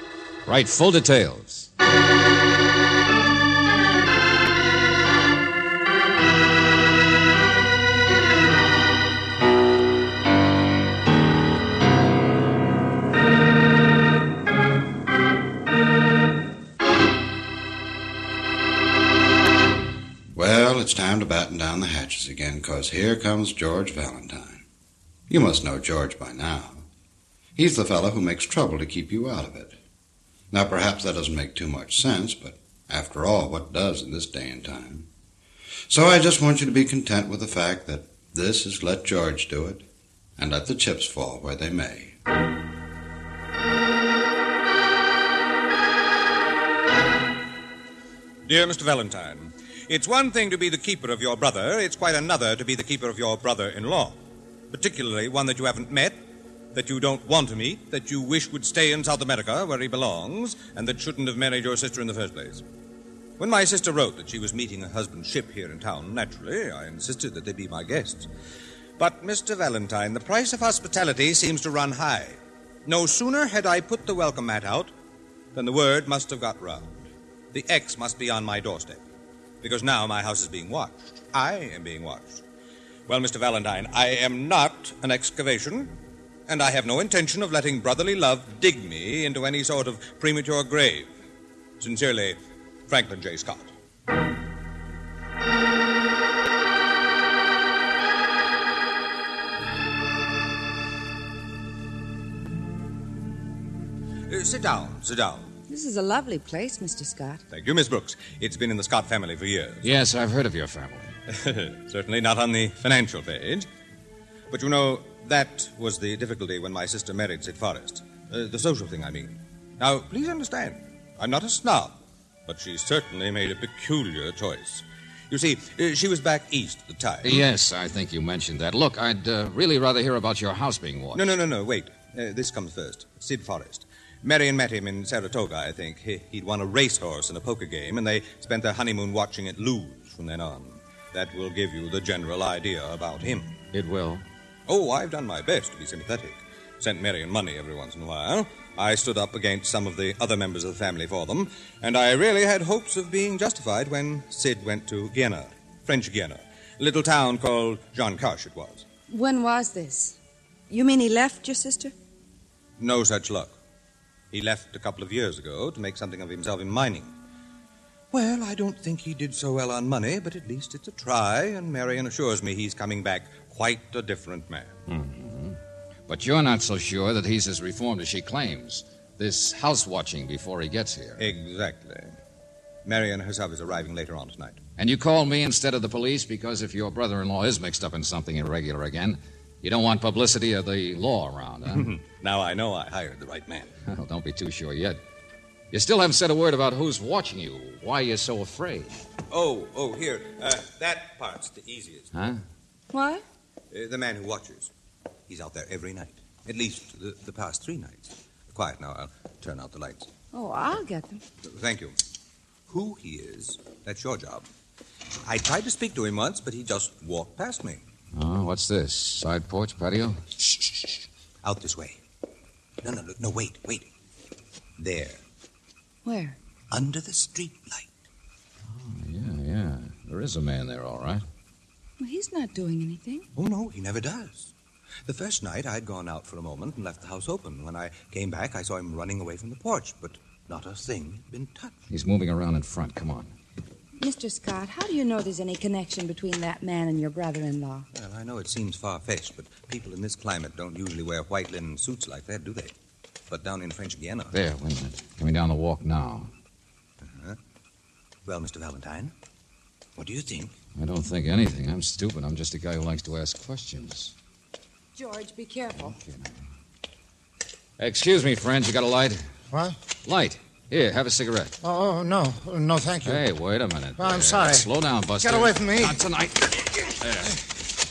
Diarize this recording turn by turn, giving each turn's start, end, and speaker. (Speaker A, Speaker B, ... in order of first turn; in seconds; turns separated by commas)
Speaker A: 0.5-1.7, Speaker B: 20.3-24.6, Speaker B: 25.3-26.9, Speaker B: 27.6-29.8, Speaker B: 30.5-35.1, Speaker B: 35.9-39.9, Speaker B: 40.4-42.1, Speaker C: 48.5-54.2, Speaker C: 54.7-56.2, Speaker C: 56.7-62.6, Speaker C: 63.4-68.3, Speaker C: 69.0-74.9, Speaker C: 75.5-76.9, Speaker C: 77.5-79.0, Speaker C: 79.6-82.4, Speaker C: 83.1-85.9, Speaker C: 86.5-91.1, Speaker C: 91.8-93.7, Speaker C: 104.3-105.5, Speaker D: 105.7-107.4, Speaker C: 107.5-109.9, Speaker A: 109.8-111.1, Speaker C: 111.3-113.7, Speaker C: 114.5-127.4, Speaker A: 127.2-131.3, Speaker C: 131.1-143.5, Speaker A: 143.7-144.2, Speaker C: 144.7-158.8, Speaker D: 159.1-160.2, Speaker D: 160.7-161.9, Speaker C: 162.8-163.6, Speaker C: 164.3-167.1, Speaker C: 168.1-174.7, Speaker A: 174.9-181.3, Speaker C: 181.2-182.2, Speaker C: 182.8-184.6, Speaker A: 184.8-191.9, Speaker C: 191.7-193.7, Speaker A: 193.9-195.0, Speaker A: 195.7-198.9, Speaker C: 199.3-202.1, Speaker A: 202.1-202.4, Speaker D: 202.9-203.2, Speaker C: 203.7-204.7, Speaker C: 205.3-210.1, Speaker D: 210.3-211.2, Speaker C: 211.4-212.0, Speaker C: 212.7-214.5, Speaker C: 215.2-217.8, Speaker A: 218.1-220.2, Speaker C: 221.4-222.0, Speaker C: 222.8-223.9, Speaker C: 224.8-225.2, Speaker D: 226.0-226.4, Speaker C: 226.7-228.0, Speaker A: 228.7-231.2, Speaker D: 232.0-233.3, Speaker C: 233.3-234.5, Speaker C: 235.1-241.8, Speaker A: 241.9-243.3, Speaker D: 244.0-247.9, Speaker C: 247.9-252.7, Speaker C: 253.3-254.3, Speaker A: 254.3-256.3, Speaker C: 257.0-257.4, Speaker C: 258.2-259.1, Speaker C: 259.9-260.5, Speaker A: 260.8-264.1, Speaker D: 264.9-266.0, Speaker A: 265.8-266.3, Speaker A: 267.8-269.2, Speaker E: 269.5-269.8, Speaker A: 270.1-271.6, Speaker E: 271.6-273.2, Speaker A: 273.1-277.4, Speaker E: 274.0-274.7, Speaker E: 275.2-276.0